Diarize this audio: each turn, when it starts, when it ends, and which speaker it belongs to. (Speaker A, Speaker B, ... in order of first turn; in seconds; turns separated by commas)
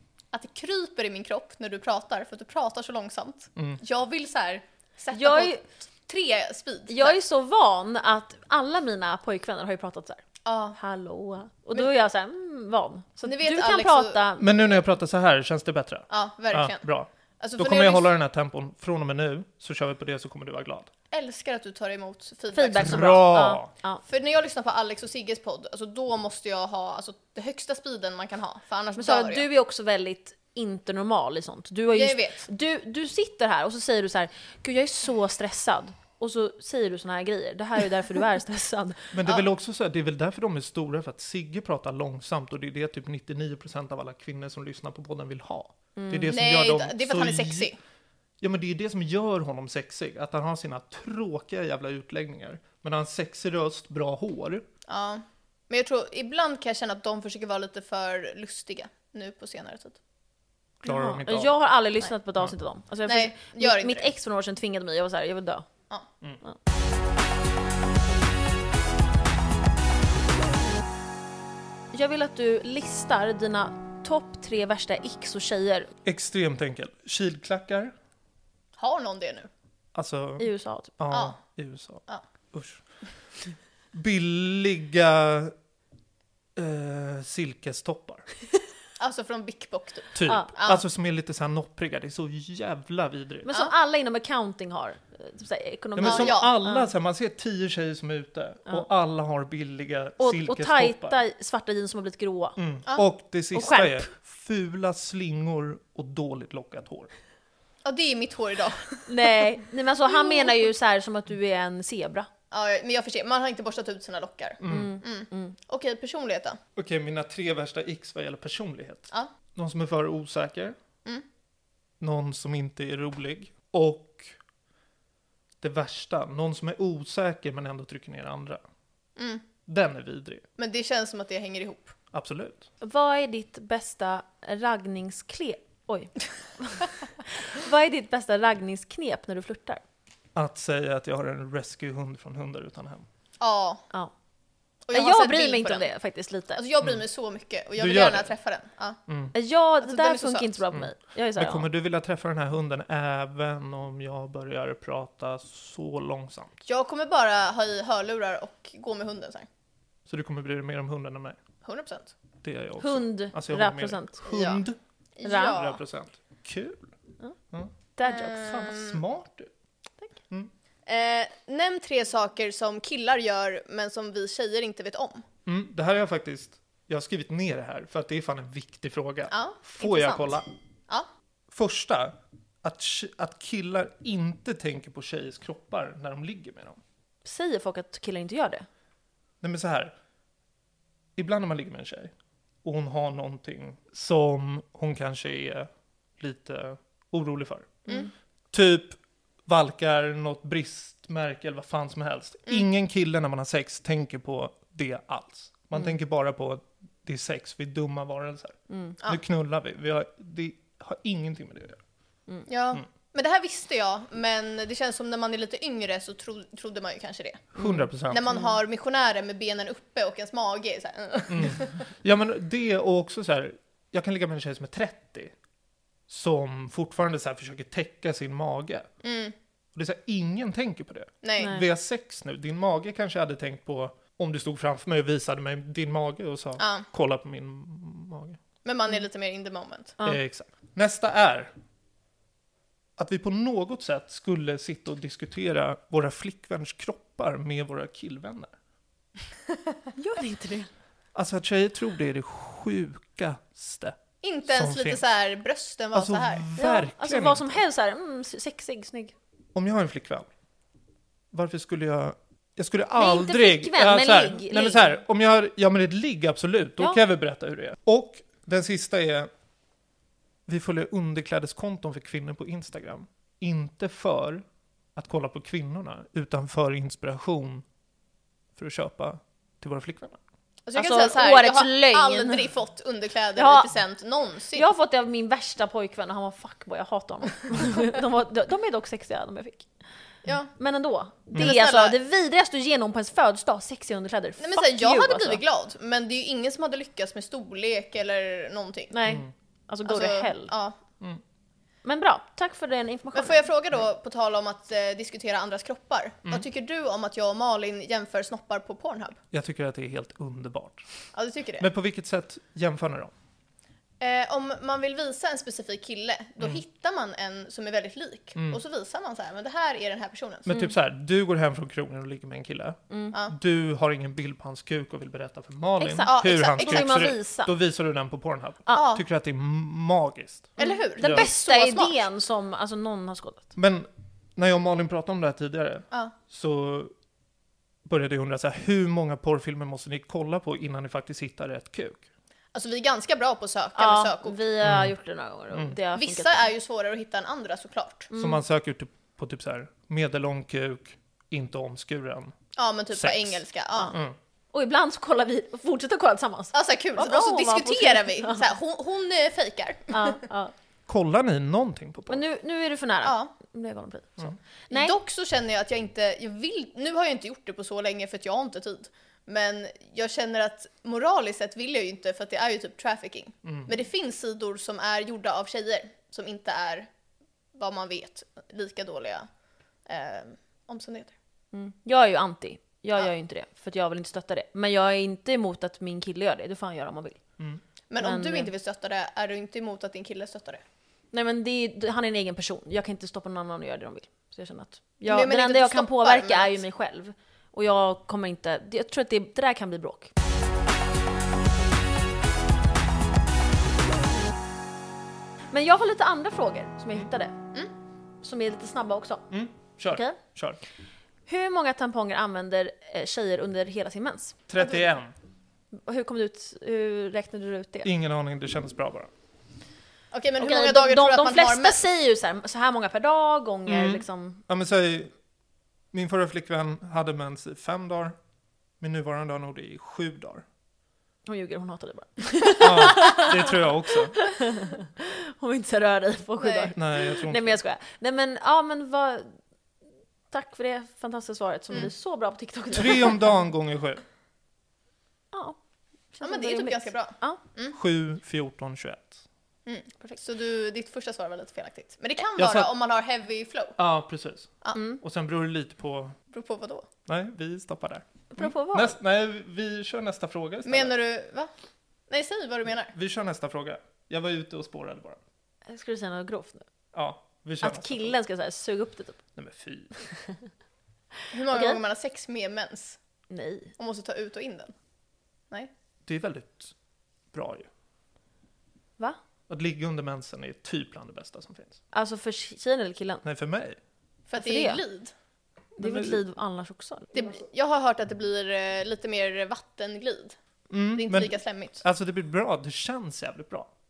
Speaker A: 0.3-7.2, Speaker B: 5.1-5.6, Speaker B: 6.9-10.2, Speaker A: 10.4-10.8, Speaker B: 10.8-14.5, Speaker A: 13.2-14.2, Speaker C: 14.4-20.9, Speaker A: 16.1-16.9, Speaker A: 17.4-18.1, Speaker A: 21.1-23.4, Speaker B: 22.5-24.0, Speaker C: 22.8-23.7, Speaker A: 24.0-29.5, Speaker B: 29.0-39.1, Speaker A: 31.9-32.5, Speaker C: 39.1-47.7, Speaker B: 46.0-46.4, Speaker A: 46.3-47.8, Speaker C: 48.4-54.6, Speaker A: 54.9-60.0, Speaker C: 60.8-61.5, Speaker B: 60.8-65.7, Speaker A: 63.0-64.1, Speaker B: 71.9-75.9, Speaker C: 76.0-77.9, Speaker A: 78.8-79.5, Speaker C: 79.9-82.8, Speaker B: 80.4-80.9, Speaker A: 81.1-81.4, Speaker C: 83.9-85.5, Speaker C: 86.5-88.2, Speaker A: 89.0-90.8, Speaker C: 90.1-93.5, Speaker B: 93.5-96.9, Speaker C: 96.0-101.2, Speaker A: 96.0-96.5, Speaker B: 100.2-102.6, Speaker C: 102.6-107.1, Speaker B: 103.5-104.1, Speaker A: 107.8-109.4, Speaker B: 109.1-112.3, Speaker A: 110.1-110.7, Speaker A: 112.5-116.6, Speaker C: 114.6-115.0, Speaker B: 114.7-115.5, Speaker C: 116.8-120.8, Speaker C: 122.0-124.3, Speaker C: 125.6-128.6, Speaker A: 129.2-129.4, Speaker C: 129.7-130.4, Speaker A: 130.6-131.9, Speaker C: 132.1-132.7, Speaker B: 132.8-139.8, Speaker C: 140.3-143.1, Speaker A: 143.4-143.8, Speaker A: 144.8-145.9, Speaker B: 144.9-146.6, Speaker A: 146.5-149.0, Speaker C: 147.8-148.3, Speaker C: 149.1-149.3, Speaker B: 149.3-151.7, Speaker A: 149.8-150.6, Speaker C: 150.7-156.6, Speaker A: 156.7-159.5, Speaker C: 160.1-161.4, Speaker A: 161.6-162.1, Speaker C: 162.4-164.8, Speaker B: 162.8-164.2, Speaker A: 164.3-164.6, Speaker A: 165.2-165.8, Speaker B: 165.2-165.6, Speaker C: 165.5-166.9, Speaker B: 168.0-168.6, Speaker A: 168.0-169.0, Speaker C: 168.4-169.5, Speaker A: 170.8-175.2, Speaker C: 175.4-180.4, Speaker A: 179.3-181.1, Speaker C: 181.5-186.8, Speaker B: 187.2-188.7, Speaker C: 189.4-189.9, Speaker C: 191.2-197.8, Speaker C: 198.5-211.8, Speaker B: 208.7-209.0, Speaker A: 212.5-221.8, Speaker C: 217.5-218.3, Speaker C: 221.3-225.3, Speaker C: 226.1-228.9, Speaker A: 229.0-229.3, Speaker C: 229.7-238.4, Speaker A: 231.2-231.6, Speaker A: 236.6-236.9, Speaker A: 238.6-240.0, Speaker C: 240.0-241.5, Speaker C: 243.0-248.5, Speaker B: 249.9-250.7, Speaker C: 251.1-255.0, Speaker A: 254.2-256.5, Speaker C: 255.9-257.6, Speaker B: 256.6-259.1, Speaker C: 259.5-260.3, Speaker C: 261.3-269.3, Speaker B: 262.9-264.9, Speaker C: 270.5-274.4, Speaker C: 274.9-277.6, Speaker C: 278.6-280.2, Speaker A: 280.6-284.6, Speaker B: 280.8-282.4, Speaker B: 283.4-283.7, Speaker B: 284.5-289.7, Speaker A: 290.2-290.5, Speaker B: 290.6-295.4, Speaker A: 291.3-291.9, Speaker A: 294.4-298.9, Speaker B: 298.9-300.5, Speaker C: 299.1-299.3, Speaker A: 299.8-300.8, Speaker B: 301.8-303.4, Speaker A: 303.1-309.2, Speaker C: 309.3-310.9, Speaker A: 311.1-311.7, Speaker C: 311.6-313.1, Speaker A: 314.0-320.5, Speaker C: 318.3-318.6, Speaker C: 320.5-331.3, Speaker B: 322.9-323.1, Speaker B: 325.8-327.5, Speaker A: 326.0-327.0, Speaker B: 328.7-328.9, Speaker A: 328.7-329.0, Speaker A: 330.6-332.1, Speaker B: 330.6-333.5, Speaker C: 333.5-336.9, Speaker C: 337.8-342.0, Speaker A: 342.5-344.4, Speaker B: 343.8-346.4, Speaker C: 344.6-344.9, Speaker C: 345.5-345.8, Speaker A: 345.9-348.1, Speaker B: 348.1-348.4, Speaker C: 348.1-352.3, Speaker A: 352.6-353.9, Speaker C: 352.9-354.1, Speaker B: 354.5-358.4, Speaker A: 356.5-360.2, Speaker B: 359.9-360.5, Speaker C: 360.9-362.2, Speaker B: 362.1-364.9, Speaker A: 363.0-363.3, Speaker A: 364.7-376.9, Speaker C: 373.4-373.7, Speaker A: 377.5-379.3, Speaker A: 379.9-381.1, Speaker B: 381.5-387.2, Speaker A: 387.9-390.6, Speaker B: 388.0-388.5, Speaker B: 391.1-400.1, Speaker A: 395.1-396.6, Speaker B: 405.5-407.3, Speaker B: 408.2-409.3, Speaker C: 409.3-410.6, Speaker B: 409.9-410.2, Speaker B: 411.3-414.4, Speaker C: 414.5-415.1, Speaker B: 415.7-417.9, Speaker C: 417.8-419.1, Speaker A: 420.1-421.8, Speaker B: 420.4-424.4, Speaker C: 423.7-425.1, Speaker C: 425.9-428.2, Speaker C: 428.8-430.4, Speaker B: 431.2-439.4, Speaker C: 432.6-434.2, Speaker A: 436.4-436.7, Speaker C: 436.7-437.6, Speaker B: 440.3-443.2, Speaker C: 442.7-444.0, Speaker B: 445.3-445.6, Speaker B: 446.1-447.4, Speaker A: 446.2-447.8, Speaker C: 447.7-449.2, Speaker A: 449.6-453.8, Speaker C: 452.4-452.7, Speaker C: 453.8-456.1, Speaker B: 454.7-455.0, Speaker A: 456.3-456.9, Speaker C: 457.1-460.9, Speaker B: 458.3-458.9, Speaker A: 460.6-461.5, Speaker A: 462.1-462.9, Speaker C: 462.9-465.2, Speaker B: 465.7-466.6, Speaker C: 466.9-468.1, Speaker B: 467.6-469.2, Speaker C: 469.4-470.1, Speaker A: 471.3-473.0, Speaker B: 471.5-471.8, Speaker B: 473.3-473.7, Speaker A: 473.8-474.7, Speaker C: 476.1-476.7, Speaker C: 477.3-477.7, Speaker C: 479.5-481.8, Speaker B: 481.9-483.2, Speaker C: 483.2-483.8, Speaker A: 484.3-485.1, Speaker B: 484.4-484.8, Speaker C: 485.8-486.2, Speaker B: 485.8-487.2, Speaker A: 487.1-490.4, Speaker C: 490.7-493.7, Speaker A: 490.9-491.8